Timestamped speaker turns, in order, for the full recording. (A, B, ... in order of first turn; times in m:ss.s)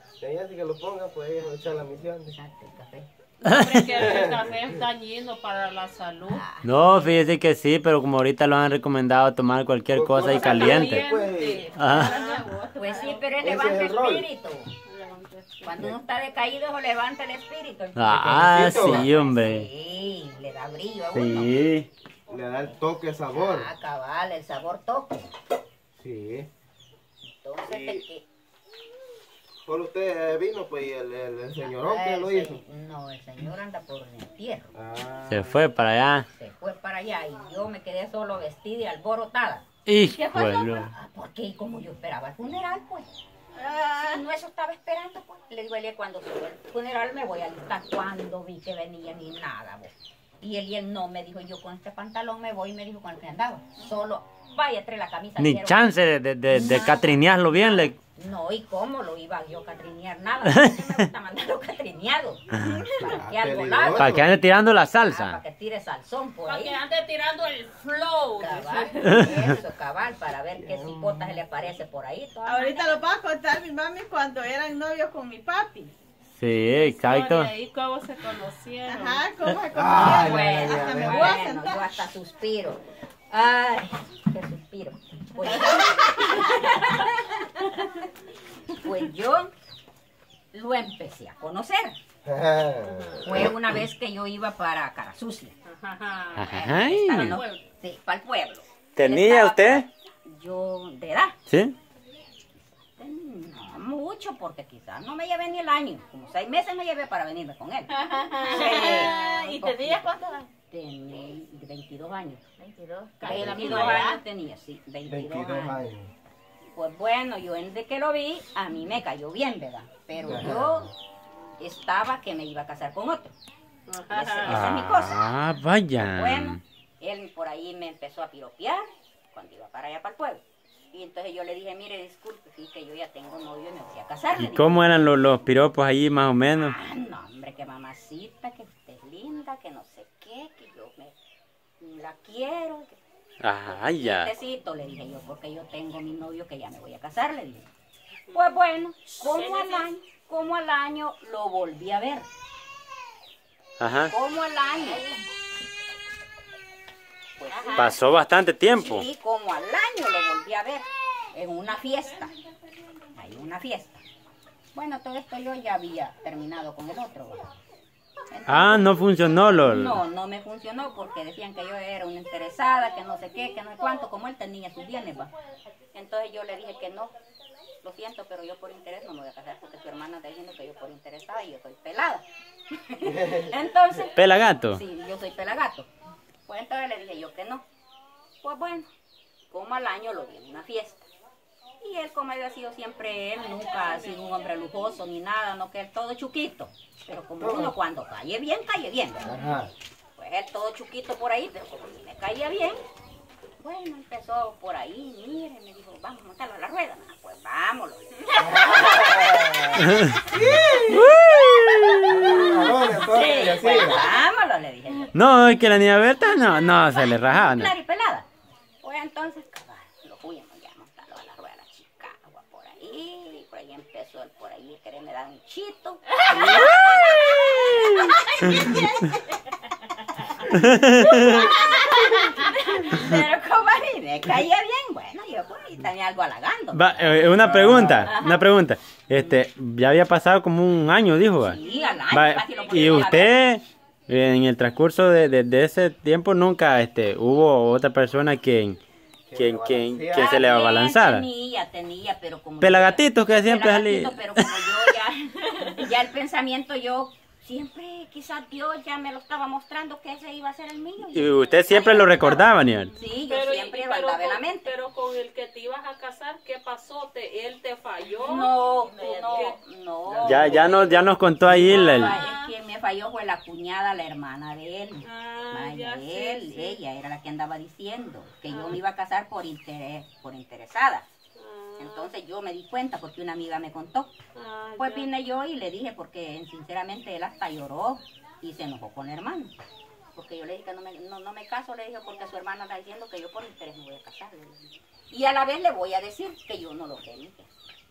0:00.2-0:02.4 A
0:01.5-0:03.1 B
0:03.4-0:06.4 C
0:03.4-0:03.9 D
0:03.9-0:04.7 A
0:06.3-0:07.2 B
0:06.6-0:11.0 D
0:09.9-0:11.7 A
0:10.2-0:12.5 C
0:11.7-0:12.1 D
0:11.9-0:13.2 E
0:11.9-0:14.7 B
0:13.4-0:14.3 A
0:14.8-0:15.8 C
0:15.6-0:21.6 B
0:18.0-0:19.7 D
0:18.1-0:19.1 A
0:21.1-0:21.9 D
0:22.3-0:23.7 A
0:22.4-0:22.8 B
0:23.3-0:25.3 B
0:26.0-0:26.5 A
0:27.4-0:28.2 B
0:27.6-0:28.0 A
0:29.6-0:32.6 A
0:31.6-0:34.7 B
0:34.7-0:35.5 A
0:35.3-0:36.2 D
0:36.3-0:43.1 B
0:39.9-0:40.9 D
0:43.6-0:44.2 E
0:44.0-0:56.0 B
0:55.4-0:58.0 D
0:56.5-1:04.4 B
1:00.5-1:00.8 D
1:02.9-1:04.3 A
1:04.0-1:05.4 D
1:05.0-1:06.8 B
1:06.4-1:09.4 C
1:08.4-1:13.0 B
1:10.6-1:11.4 A
1:12.4-1:15.9 E
1:16.4-1:17.5 D
1:16.7-1:19.3 C
1:18.8-1:21.9 E
1:19.7-1:21.4 A
1:19.9-1:28.1 B
1:25.6-1:26.4 E
1:28.7-1:29.5 B
1:30.5-1:32.0 B
1:32.2-1:33.5 A
1:32.8-1:33.2 C
1:33.2-1:35.5 B
1:35.6-1:37.6 C
1:36.3-1:37.4 D
1:36.4-1:41.4 B
1:39.0-1:39.9 D
1:41.5-1:41.7 D
1:43.0-1:50.1 B
1:48.0-1:50.5 E
1:48.4-1:49.2 C
1:50.7-1:52.4 B
1:52.6-1:54.2 E
1:53.2-1:54.1 C
1:53.2-1:55.9 B
1:55.1-1:56.1 A
1:56.7-2:00.9 B
2:00.2-2:00.9 A
2:01.6-2:03.3 B
2:03.9-2:04.8 C
2:04.1-2:05.2 B
2:04.5-2:06.6 D
2:06.0-2:14.8 B
2:14.4-2:16.8 D
2:16.5-2:21.1 B
2:21.8-2:23.0 B
2:23.4-2:24.3 D
2:23.7-2:27.7 B
2:28.3-2:32.3 B
2:29.2-2:29.9 C
2:33.8-2:34.1 D
2:34.1-2:35.0 B
2:37.4-2:38.0 B
2:37.7-2:39.0 D
2:38.7-2:42.3 B
2:43.1-2:44.0 B
2:44.7-2:47.5 B
2:48.3-2:55.3 B
2:48.5-2:50.0 D
2:55.9-2:57.1 B
2:57.8-3:05.9 B
3:03.1-3:03.5 A
3:04.1-3:04.8 D
3:06.5-3:07.6 B
3:08.4-3:08.9 B
3:09.5-3:11.1 B
3:11.8-3:19.4 B
3:17.4-3:17.7 A
3:19.2-3:19.7 A
3:20.2-3:22.8 B
3:23.6-3:30.0 B
3:28.4-3:31.1 A
3:30.7-3:35.1 B
3:30.9-3:32.2 D
3:32.0-3:34.2 A
3:35.1-3:37.7 D
3:36.5-3:38.2 B
3:38.8-3:49.2 B
3:46.3-3:48.7 D
3:50.1-3:58.4 B
3:50.5-3:51.5 D
3:56.7-4:01.6 D
3:57.5-3:58.1 A
4:01.4-4:03.4 B
4:02.1-4:08.8 D
4:09.3-4:10.5 A
4:09.3-4:11.2 D
4:10.1-4:24.7 B
4:12.6-4:14.8 D
4:21.1-4:22.9 D
4:23.2-4:29.6 C
4:28.2-4:41.0 B
4:30.2-4:32.1 D
4:31.6-4:32.5 C
4:35.0-4:36.8 C
4:38.5-4:38.8 C
4:41.4-4:42.1 C
4:41.8-4:44.1 B
4:44.3-4:45.1 C
4:44.8-4:49.5 B
4:50.1-4:57.5 B